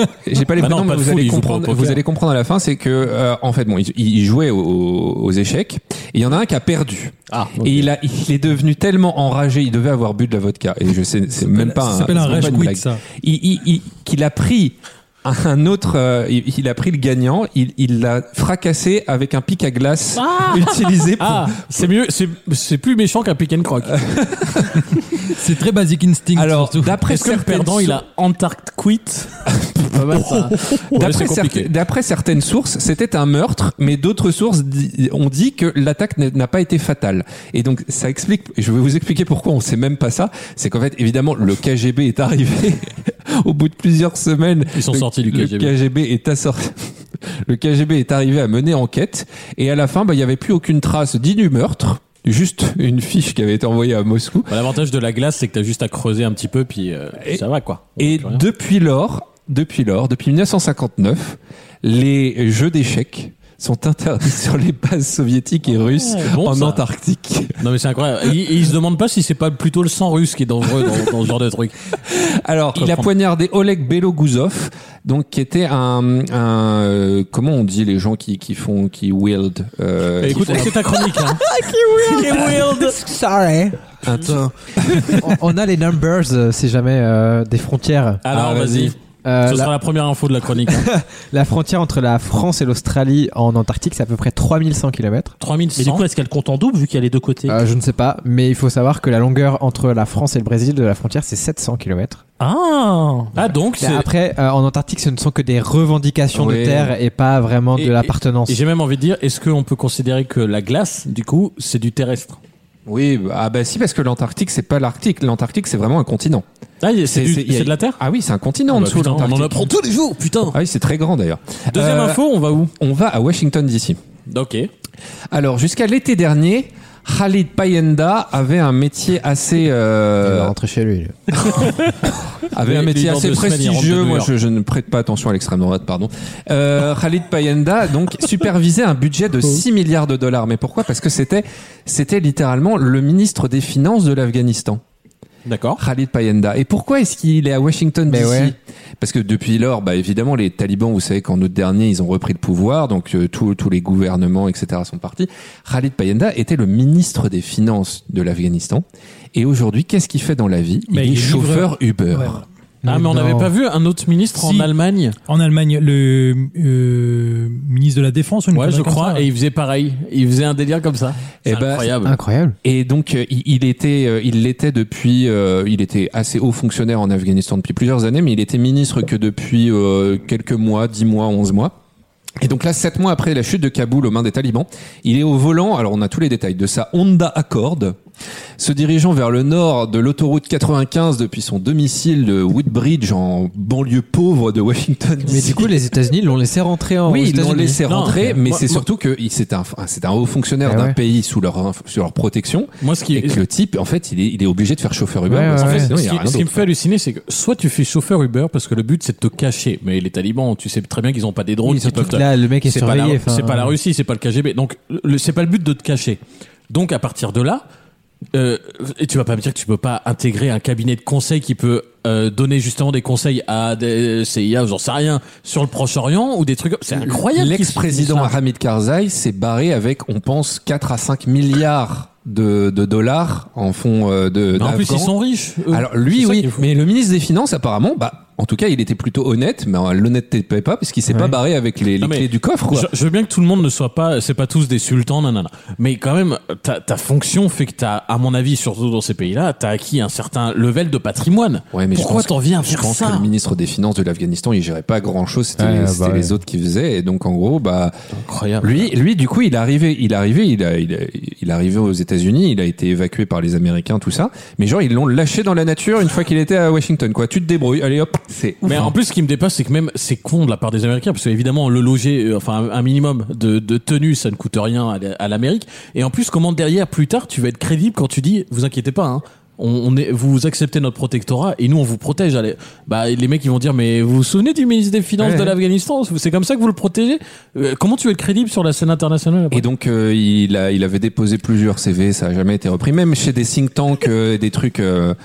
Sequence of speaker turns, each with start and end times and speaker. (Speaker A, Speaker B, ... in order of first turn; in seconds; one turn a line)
Speaker A: 0.2-21.7
Speaker B: 0.6-2.0
Speaker C: 11.4-13.0
Speaker B: 20.2-24.1
Speaker A: 23.9-24.9
Speaker C: 25.3-27.0
Speaker A: 26.4-28.0
Speaker B: 27.1-29.3
Speaker A: 29.6-54.5
Speaker B: 29.9-31.7
Speaker B: 44.7-45.7
Speaker B: 54.5-58.5
Speaker A: 58.0-67.5
Speaker B: 66.1-66.8
Speaker B: 67.6-71.8
Speaker A: 72.1-80.8
Speaker B: 72.8-73.1
Speaker B: 80.2-81.4
Speaker D: 81.1-83.9
Speaker B: 82.0-83.0
Speaker A: 84.1-85.3
Speaker B: 84.1-84.4
Speaker D: 84.8-89.7
Speaker B: 88.2-90.9
Speaker D: 90.7-95.3
Speaker B: 95.4-96.0
Speaker E: 95.8-97.6
Speaker D: 97.5-102.2
Speaker E: 102.4-103.3
Speaker B: 103.3-104.1
Speaker D: 103.8-108.6
Speaker A: 106.3-106.9
Speaker B: 107.8-112.4
Speaker A: 112.9-116.5
Speaker B: 116.8-118.0
Speaker A: 117.1-119.7
Speaker B: 118.7-120.6
Speaker A: 120.5-122.2
Speaker B: 121.7-122.7
Speaker A: 122.8-124.0
Speaker B: 124.3-124.7
Speaker A: 125.3-130.5
Speaker D: 130.2-131.5
Speaker A: 132.5-144.8
Speaker B: 132.6-134.3
Speaker B: 145.5-145.8
Speaker A: 145.8-162.4
Speaker D: 148.1-148.6
Speaker C: 160.9-162.4
Speaker D: 162.8-163.5
Speaker B: 162.8-165.2
Speaker C: 164.3-164.7
Speaker C: 165.3-169.3
Speaker B: 168.5-172.2
Speaker A: 171.5-172.0
Speaker D: 172.0-172.6
Speaker A: 172.6-181.7
Speaker A: 182.4-188.0
Speaker A: 188.6-195.8
Speaker D: 195.3-198.3
Speaker A: 197.1-206.7
Speaker B: 197.9-198.9
Speaker D: 200.7-201.0
Speaker B: 202.8-203.4
Speaker D: 205.3-205.9
Speaker B: 205.6-216.2
Speaker D: 211.6-213.8
Speaker B: 216.7-217.6
Speaker B: 218.3-228.4
Speaker A: 226.9-235.1
Speaker B: 234.6-236.7
Speaker A: 235.7-242.9
Speaker D: 241.1-241.4
Speaker B: 242.0-253.3
Speaker A: 251.7-258.0
Speaker D: 255.6-256.4
Speaker B: 258.1-258.9
Speaker A: 258.6-268.9
Speaker B: 268.6-289.6
Speaker A: 285.2-285.6
Speaker A: 289.5-295.2